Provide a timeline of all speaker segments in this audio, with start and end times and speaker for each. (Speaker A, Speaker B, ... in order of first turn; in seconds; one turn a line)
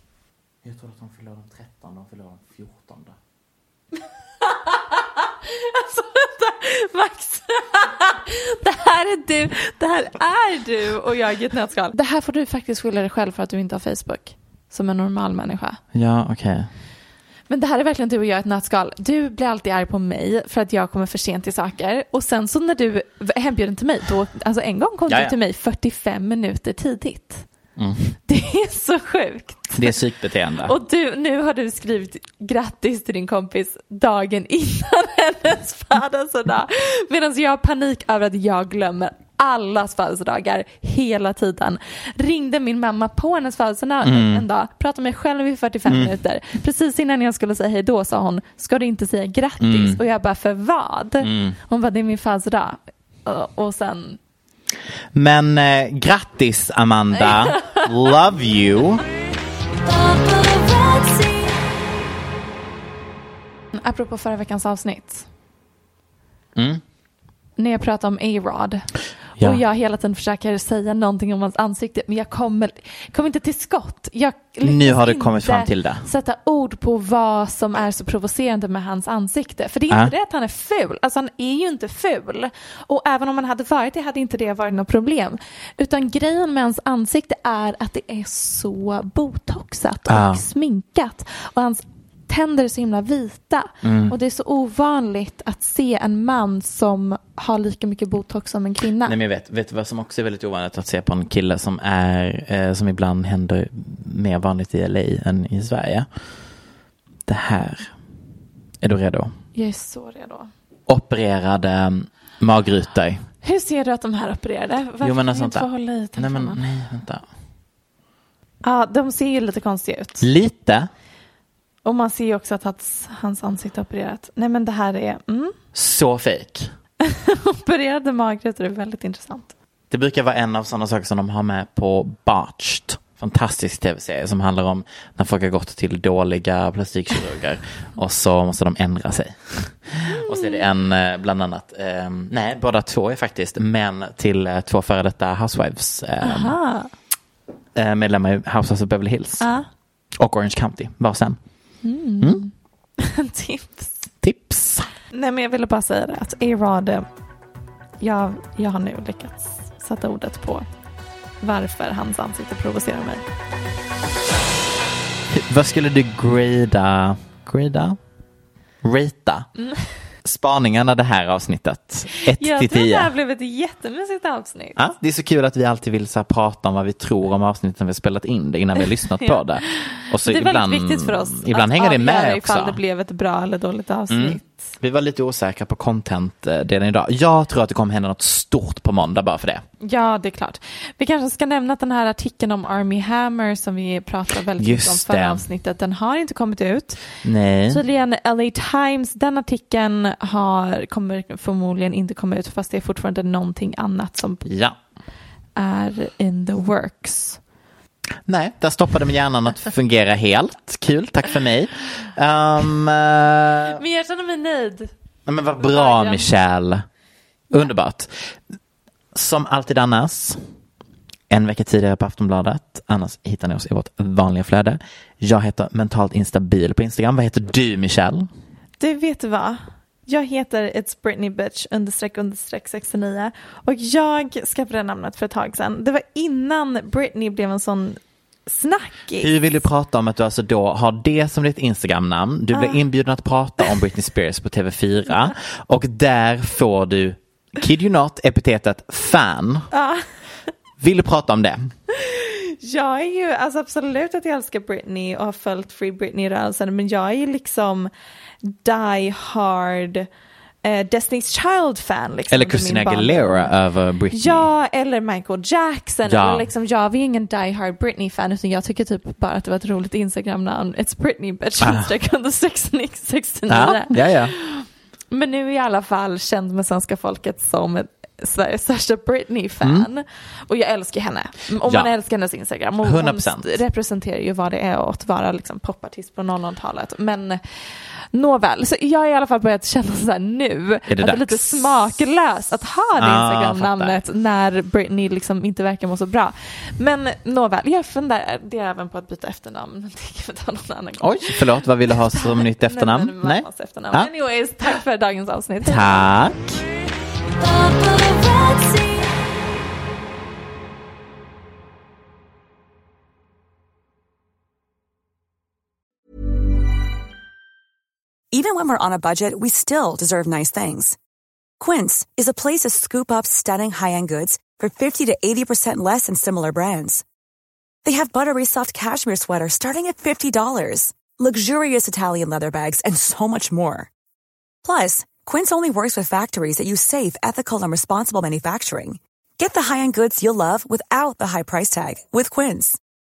Speaker A: 0.6-3.2
Speaker B: 4.4-15.8
Speaker A: 15.9-16.7
Speaker B: 17.5-27.4
Speaker A: 25.1-25.3
Speaker A: 27.8-28.1
Speaker B: 28.3-29.9
Speaker A: 29.7-30.8
Speaker B: 30.6-54.2
Speaker A: 44.0-44.4
Speaker A: 45.9-46.1
Speaker A: 49.6-50.0
Speaker A: 51.2-51.6
Speaker A: 55.1-59.0
Speaker B: 57.2-57.9
Speaker B: 59.9-61.5
Speaker B: 63.7-65.2
Speaker A: 66.5-66.8
Speaker B: 67.6-99.1
Speaker A: 74.6-76.1
Speaker A: 90.1-90.4
Speaker A: 93.8-94.1
Speaker A: 99.0-106.1
Speaker A: 107.2-107.9
Speaker A: 108.8-109.3
Speaker B: 109.5-110.5
Speaker A: 110.9-113.2
Speaker B: 113.4-116.6
Speaker A: 115.0-117.2
Speaker B: 118.6-120.3
Speaker A: 120.2-120.9
Speaker B: 121.8-125.5
Speaker A: 125.7-126.7
Speaker B: 127.0-129.5
Speaker A: 129.9-146.6
Speaker B: 140.1-140.6
Speaker B: 146.2-146.9
Speaker A: 147.7-149.5
Speaker B: 149.4-149.7
Speaker A: 150.2-151.4
Speaker B: 151.8-153.9
Speaker A: 154.2-154.9
Speaker B: 155.1-157.1
Speaker B: 158.0-160.6
Speaker B: 161.4-163.2
Speaker A: 165.3-168.0
Speaker A: 168.8-169.5
Speaker A: 170.2-173.1
Speaker B: 172.1-174.8
Speaker A: 174.8-182.8
Speaker B: 179.2-184.7
Speaker A: 184.1-189.6
Speaker B: 189.8-197.0
Speaker A: 194.6-195.4
Speaker A: 197.2-197.8
Speaker B: 197.7-204.4
Speaker A: 204.4-204.8
Speaker B: 205.6-207.4
Speaker A: 208.2-213.8
Speaker B: 213.8-214.9
Speaker A: 215.2-216.8
Speaker B: 215.6-216.3
Speaker A: 217.5-218.3
Speaker A: 219.1-220.4
Speaker A: 221.3-228.3
Speaker B: 228.8-239.3
Speaker A: 239.2-249.7
Speaker B: 242.5-242.8
Speaker B: 249.7-250.0
Speaker A: 250.8-251.7
Speaker B: 251.9-257.9
Speaker B: 258.5-260.1
Speaker B: 260.6-263.5
Speaker A: 262.3-264.5
Speaker B: 264.1-287.4
Speaker A: 266.0-266.5
Speaker A: 271.6-271.9
Speaker A: 273.5-274.3
Speaker A: 279.6-279.9
Speaker A: 281.6-281.9
Speaker A: 282.8-283.6
Speaker B: 288.1-306.1
Speaker A: 290.9-291.7
Speaker A: 293.0-294.0
Speaker A: 301.0-304.1
Speaker A: 305.6-306.6
Speaker B: 307.4-309.0
Speaker C: 318.3-321.0
Speaker C: 321.6-327.0
Speaker C: 327.8-333.9
Speaker C: 334.6-342.8